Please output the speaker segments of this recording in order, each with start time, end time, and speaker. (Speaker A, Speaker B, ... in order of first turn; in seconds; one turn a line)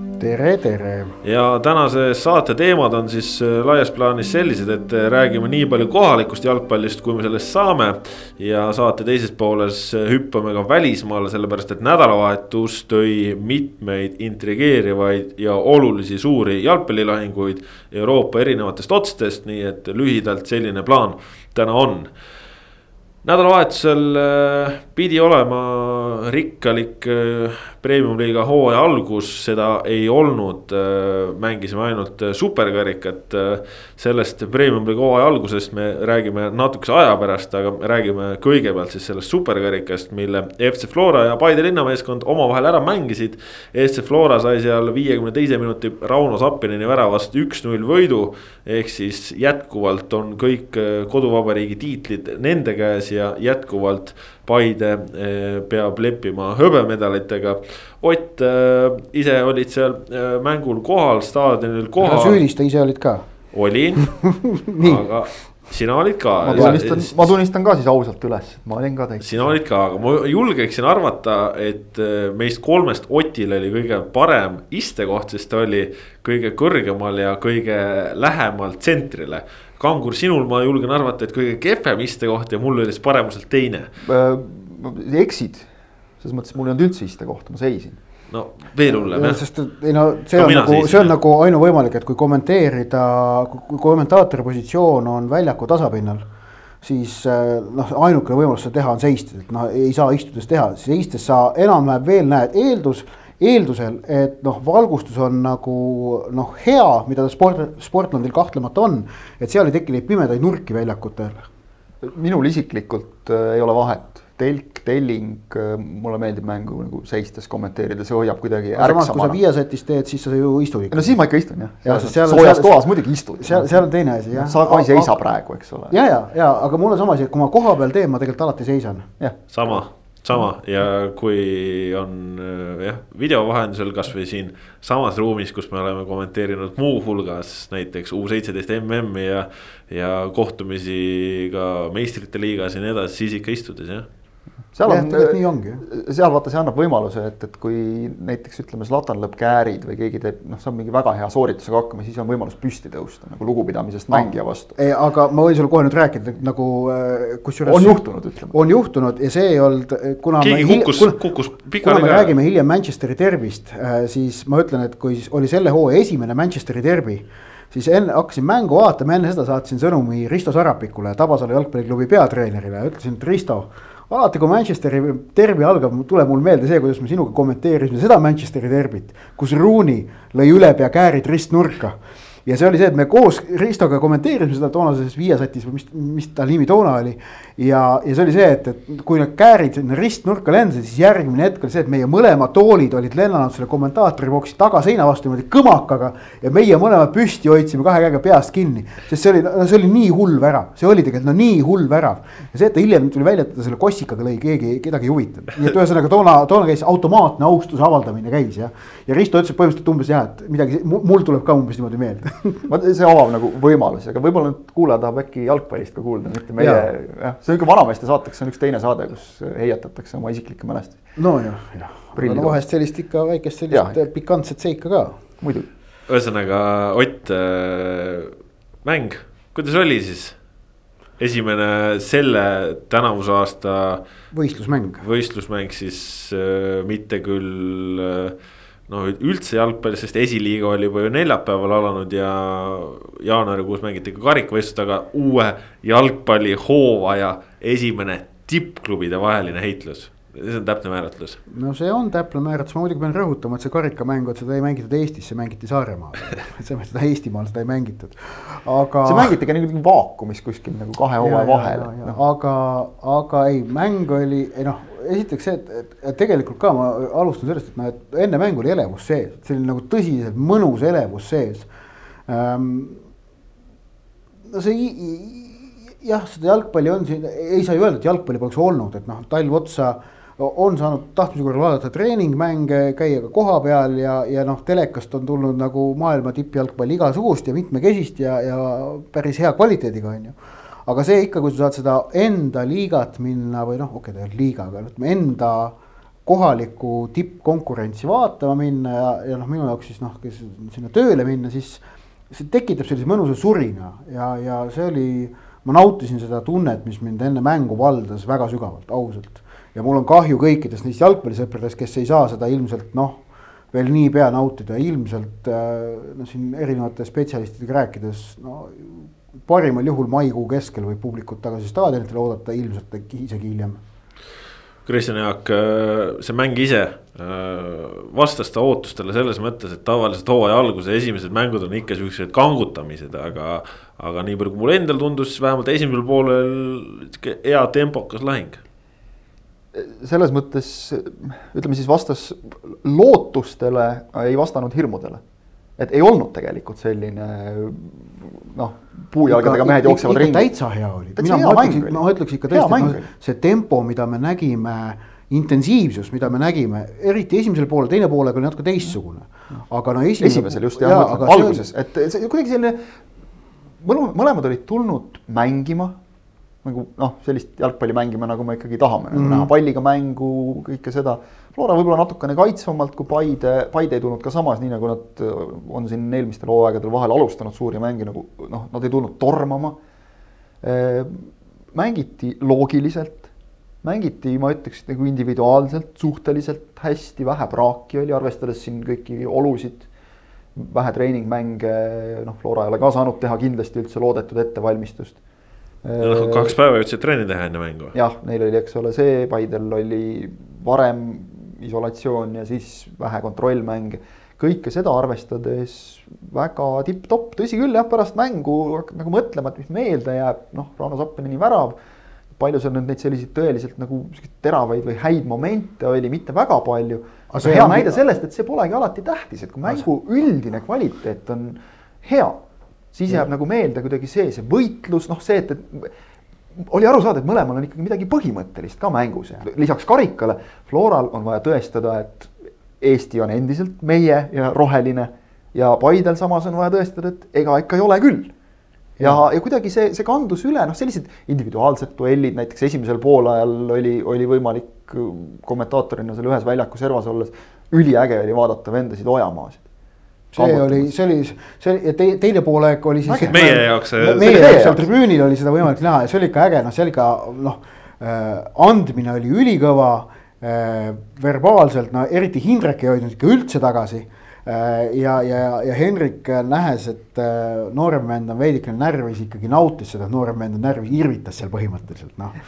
Speaker A: 0.2-1.1
Speaker B: 1.2-22.1
Speaker B: 23.2-62.4
Speaker A: 62.0-63.2
Speaker B: 63.5-67.2
Speaker A: 64.2-65.0
Speaker C: 66.4-69.4
Speaker A: 66.5-66.8
Speaker B: 69.2-83.9
Speaker C: 84.0-85.7
Speaker C: 86.2-88.0
Speaker B: 88.3-89.4
Speaker A: 89.1-96.2
Speaker B: 90.4-91.1
Speaker A: 96.8-111.5
Speaker C: 112.0-119.4
Speaker A: 118.8-121.2
Speaker C: 120.9-126.0
Speaker A: 121.8-122.8
Speaker A: 123.4-125.1
Speaker A: 125.9-129.1
Speaker B: 129.5-144.1
Speaker C: 144.7-154.8
Speaker A: 144.8-145.8
Speaker A: 154.1-158.0
Speaker C: 157.7-158.6
Speaker A: 158.5-161.2
Speaker B: 160.4-162.3
Speaker A: 161.8-212.7
Speaker C: 212.7-221.0
Speaker A: 216.6-216.9
Speaker A: 221.2-225.2
Speaker C: 222.2-222.6
Speaker C: 223.7-224.0
Speaker C: 225.4-225.7
Speaker B: 226.1-230.4
Speaker B: 231.2-234.0
Speaker A: 234.3-235.0
Speaker B: 235.0-238.3
Speaker B: 238.9-251.4
Speaker A: 251.5-259.3
Speaker C: 259.1-262.2
Speaker A: 261.2-271.7
Speaker A: 272.3-273.0
Speaker A: 274.5-295.8
Speaker A: 296.3-323.8
Speaker B: 324.9-338.6
Speaker C: 339.7-345.2
Speaker C: 345.8-350.5
Speaker A: 349.2-361.7
Speaker C: 351.2-353.1
Speaker C: 360.2-362.8
Speaker C: 363.8-366.0
Speaker C: 366.6-379.8
Speaker A: 369.1-369.5
Speaker C: 380.6-383.3
Speaker C: 383.8-389.9
Speaker C: 390.6-395.2
Speaker C: 395.8-396.6
Speaker B: 396.0-398.0
Speaker C: 397.9-411.8
Speaker C: 412.4-422.4
Speaker A: 417.3-418.0
Speaker C: 422.9-425.9
Speaker C: 426.5-438.3
Speaker C: 439.0-449.6
Speaker A: 450.3-472.4
Speaker C: 450.4-450.9
Speaker C: 453.1-454.9
Speaker B: 453.3-454.6